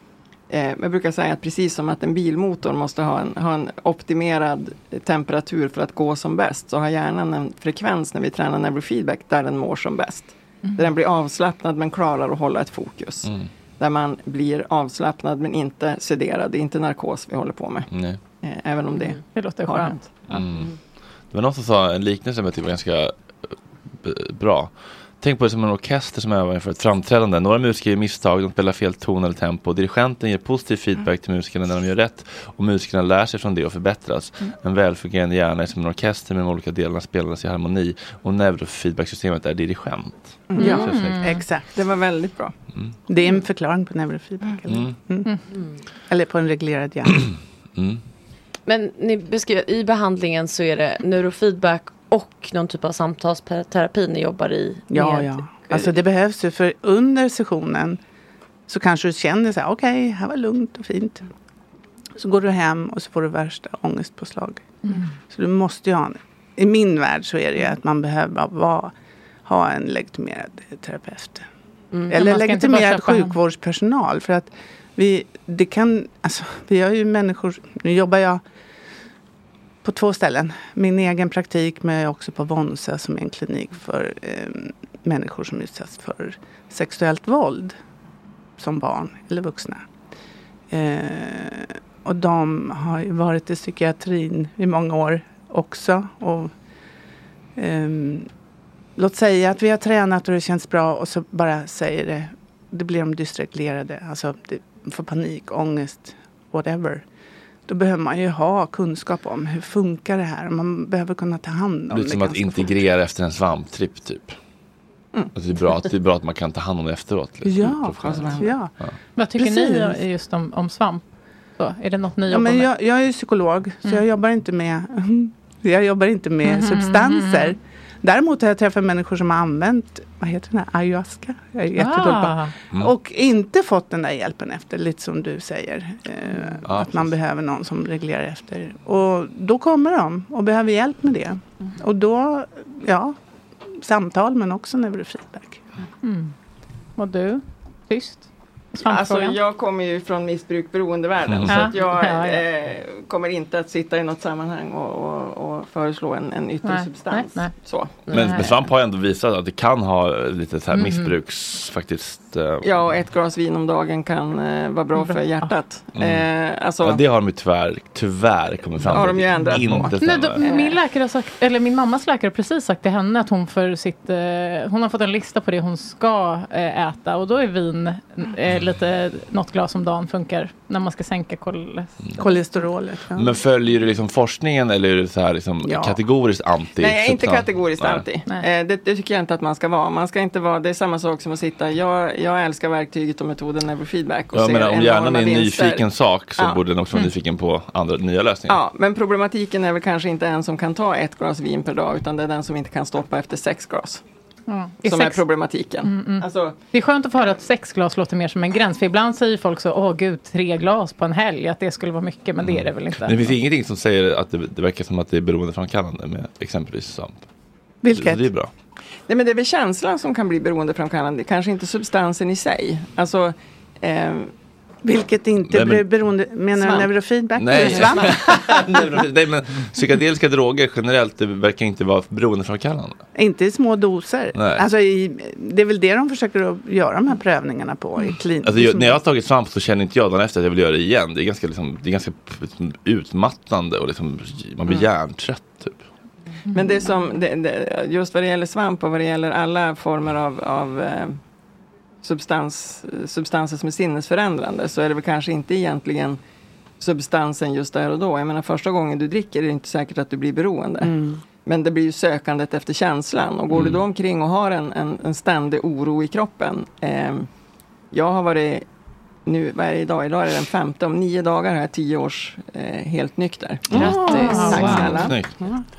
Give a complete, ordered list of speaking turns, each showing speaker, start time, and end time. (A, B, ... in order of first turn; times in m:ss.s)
0:00.5-0:17.9 A
0:17.9-0:18.2 B
0:18.4-0:20.2 A
0:19.3-0:19.9 C
0:20.3-0:20.8 B
0:21.3-0:41.3 B
0:40.5-0:40.9 A
0:40.6-0:41.4 C
0:40.6-0:41.8 D
0:41.7-0:42.6 A
0:43.1-0:45.4 D
0:44.7-0:45.0 B
0:46.1-0:47.3 D
0:47.8-0:48.0 B
0:48.6-0:56.0 E
0:54.9-0:58.0 D
0:58.7-1:01.3 D
1:02.2-1:04.7 D
1:05.2-1:08.9 D
1:09.4-1:11.4 D
1:11.9-1:12.2 E
1:12.1-1:18.4 D
1:12.1-1:13.3 C
1:19.8-1:27.7 D
1:28.6-1:29.8 D
1:30.7-1:36.5 D
1:37.6-1:38.3 D
1:39.0-1:47.0 D
1:47.7-1:52.7 D
1:51.9-1:54.4 B
1:55.3-1:59.0 B
1:57.4-1:58.7 D
1:58.0-1:58.6 A
1:59.2-2:01.0 C
1:59.4-2:00.0 D
2:01.6-2:02.7 C
2:02.3-2:23.1 D
2:06.4-2:07.5 C
2:11.8-2:12.5 C
2:16.6-2:17.1 B
2:23.8-2:25.6 D
2:26.0-2:26.3 C
2:27.0-2:29.4 C
2:28.8-2:38.0 A
2:31.3-2:31.6 B
2:31.5-2:32.4 C
2:36.6-2:37.5 C
2:38.1-2:38.5 C
2:38.1-2:42.7 B
2:40.7-2:41.1 C
2:42.6-2:47.0 A
2:45.0-2:45.5 C
2:45.9-2:46.3 B
2:46.8-2:50.4 B
2:48.8-2:50.8 A
2:50.0-3:02.4 C
3:02.2-3:03.3 D
3:03.1-3:08.0 B
3:05.6-3:06.0 D
3:06.8-3:16.6 A
3:14.3-3:18.6 B
3:18.5-3:24.0 A
3:24.5-3:25.2 C
3:24.8-3:26.6 A
3:25.8-3:33.3 C
3:32.4-3:37.2 B
3:37.8-3:38.2 D
3:37.9-3:38.5 B
3:39.1-3:44.3 A
3:44.8-3:48.6 D
3:45.5-3:45.9 B
3:46.5-3:46.9 A
3:47.4-3:53.0 B
3:47.6-3:48.4 A
3:53.1-3:59.0 D
3:54.3-3:54.6 B
3:58.4-4:05.8 B
4:06.5-4:11.2 A
4:12.0-4:16.2 A
4:16.8-4:27.3 A
4:20.8-4:21.2 D
4:23.5-4:23.8 B
4:27.9-4:28.6 A
4:29.2-4:35.2 A
4:33.7-4:35.3 B
4:33.8-4:35.6 D
4:33.8-4:35.1 C